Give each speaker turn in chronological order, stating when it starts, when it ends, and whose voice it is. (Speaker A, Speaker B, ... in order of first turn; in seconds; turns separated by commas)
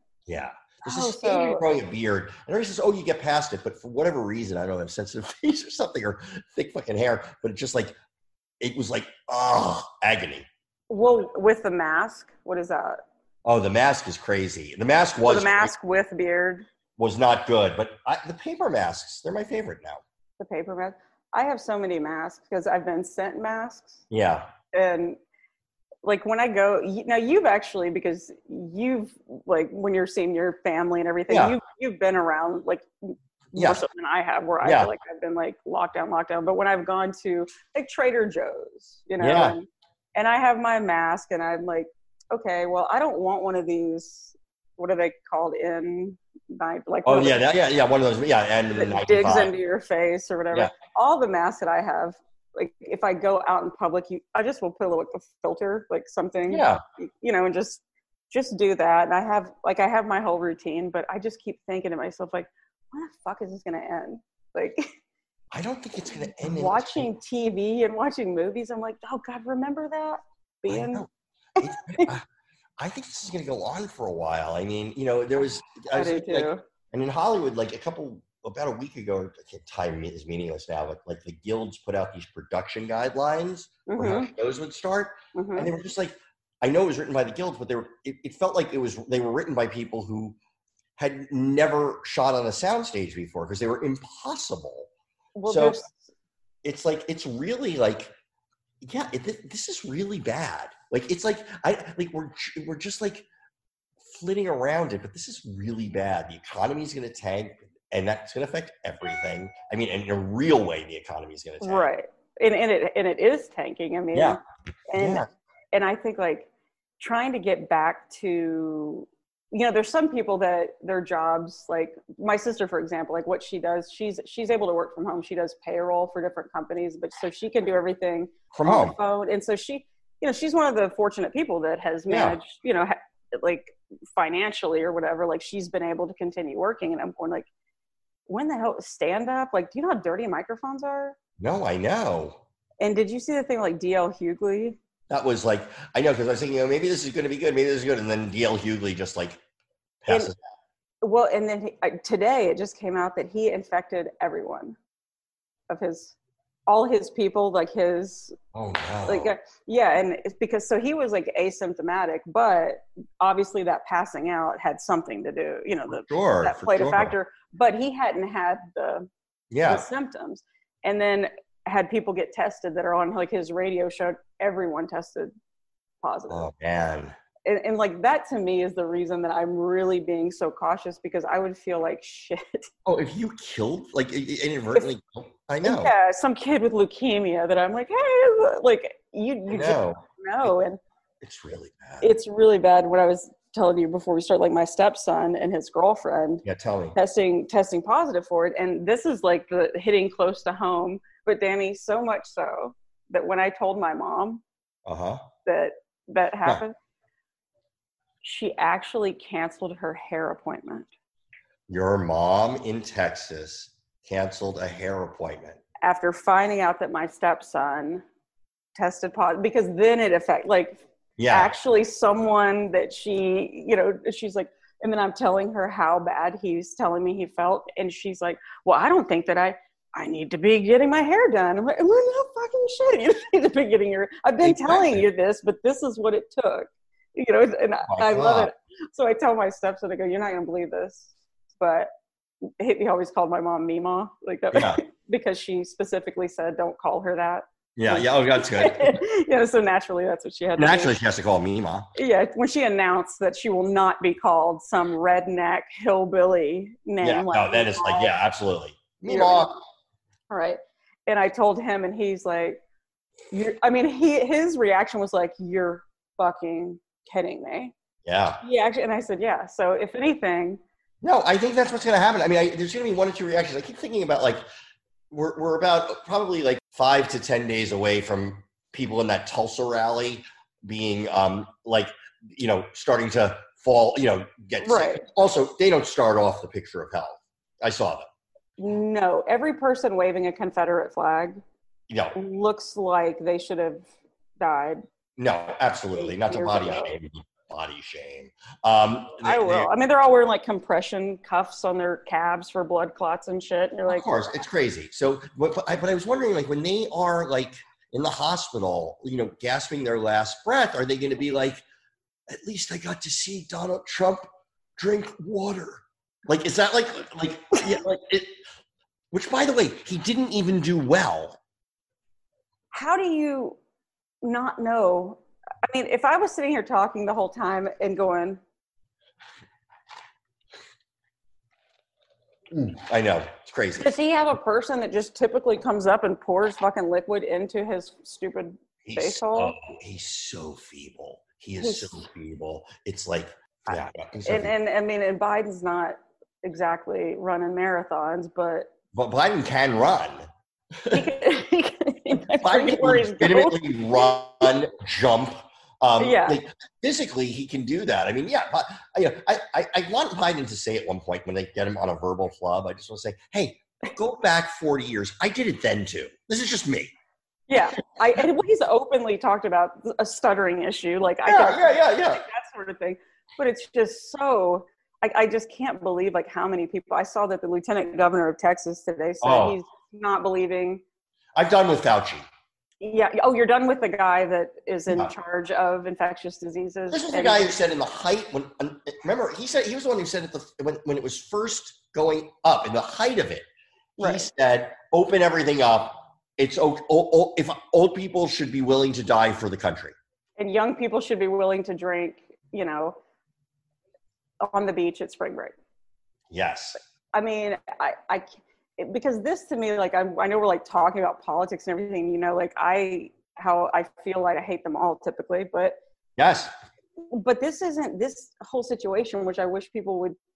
Speaker A: 0.3-7.9, Speaker B: 0.8-1.6, Speaker A: 8.6-10.5, Speaker B: 10.9-13.0, Speaker A: 13.4-15.7, Speaker B: 15.2-16.7, Speaker A: 17.0-20.0, Speaker B: 20.4-24.0, Speaker A: 24.1-24.5, Speaker B: 24.7-25.2, Speaker B: 26.0-47.4, Speaker A: 31.3-31.6, Speaker A: 33.5-33.8, Speaker A: 34.6-34.9, Speaker A: 39.2-39.6, Speaker A: 47.0-49.5, Speaker B: 48.7-64.9, Speaker A: 56.5-56.8, Speaker A: 65.5-67.1, Speaker B: 66.4-71.0, Speaker A: 70.7-71.1, Speaker A: 71.6-72.2, Speaker B: 71.6-72.1, Speaker A: 72.8-90.3, Speaker B: 75.9-76.6, Speaker B: 83.9-84.3, Speaker B: 85.3-85.7, Speaker A: 91.0-94.9, Speaker B: 95.3-96.1, Speaker A: 95.5-95.8, Speaker A: 96.6-98.1, Speaker A: 98.8-103.2, Speaker A: 104.0-111.9, Speaker B: 111.6-116.5, Speaker A: 114.1-114.4, Speaker A: 115.0-115.3, Speaker B: 117.0-137.5, Speaker A: 128.5-128.9, Speaker A: 132.1-132.4, Speaker B: 138.3-141.2, Speaker A: 141.4-142.4, Speaker B: 142.8-144.8, Speaker A: 145.1-149.4, Speaker A: 150.0-150.4, Speaker B: 151.0-154.8, Speaker B: 155.7-156.1, Speaker B: 156.7-158.3, Speaker A: 158.5-159.3, Speaker B: 159.1-169.1, Speaker A: 165.9-167.1, Speaker A: 169.5-169.8, Speaker B: 169.6-175.3, Speaker B: 176.0-176.5, Speaker A: 176.3-177.1, Speaker B: 177.4-182.7, Speaker A: 182.8-185.9, Speaker B: 185.6-190.8, Speaker A: 189.5-190.5, Speaker A: 191.2-192.1, Speaker B: 192.0-196.4, Speaker A: 196.4-196.9, Speaker B: 196.9-204.4, Speaker A: 204.8-205.2, Speaker B: 205.4-206.7, Speaker B: 208.2-210.9, Speaker A: 211.7-215.6, Speaker B: 215.8-218.0, Speaker B: 218.8-241.9, Speaker A: 221.2-221.5, Speaker A: 234.4-235.0, Speaker A: 237.9-238.5, Speaker B: 242.6-250.9, Speaker A: 244.5-244.8, Speaker A: 247.8-249.0, Speaker A: 250.6-251.9, Speaker B: 251.9-258.1, Speaker A: 257.0-259.6, Speaker B: 259.1-259.6, Speaker B: 260.3-262.6, Speaker B: 263.3-267.7, Speaker A: 268.0-268.4, Speaker B: 268.4-270.6, Speaker A: 271.0-274.4, Speaker A: 275.1-288.1, Speaker B: 284.6-285.0, Speaker B: 288.6-291.4, Speaker A: 291.9-292.1, Speaker B: 292.1-293.9, Speaker B: 294.4-294.8, Speaker A: 295.2-299.7, Speaker B: 296.0-296.9, Speaker B: 299.2-304.4, Speaker A: 303.9-311.6, Speaker A: 312.3-318.4, Speaker A: 319.1-321.4, Speaker B: 322.7-323.6, Speaker B: 324.2-328.4, Speaker A: 332.5-333.9, Speaker B: 333.8-339.5, Speaker A: 338.8-344.5, Speaker B: 341.6-342.0, Speaker B: 344.2-348.7, Speaker A: 348.9-351.1, Speaker B: 350.9-354.1, Speaker A: 352.2-366.9, Speaker B: 356.0-356.4, Speaker B: 367.5-380.8, Speaker A: 371.2-372.2, Speaker A: 379.2-379.6, Speaker A: 381.3-382.3, Speaker B: 382.8-387.5, Speaker A: 386.9-393.5, Speaker B: 394.0-394.3, Speaker A: 394.0-399.9, Speaker B: 400.4-403.0, Speaker B: 404.4-405.5, Speaker A: 406.3-406.8, Speaker B: 407.1-415.8, Speaker A: 416.2-416.5, Speaker B: 417.1-420.1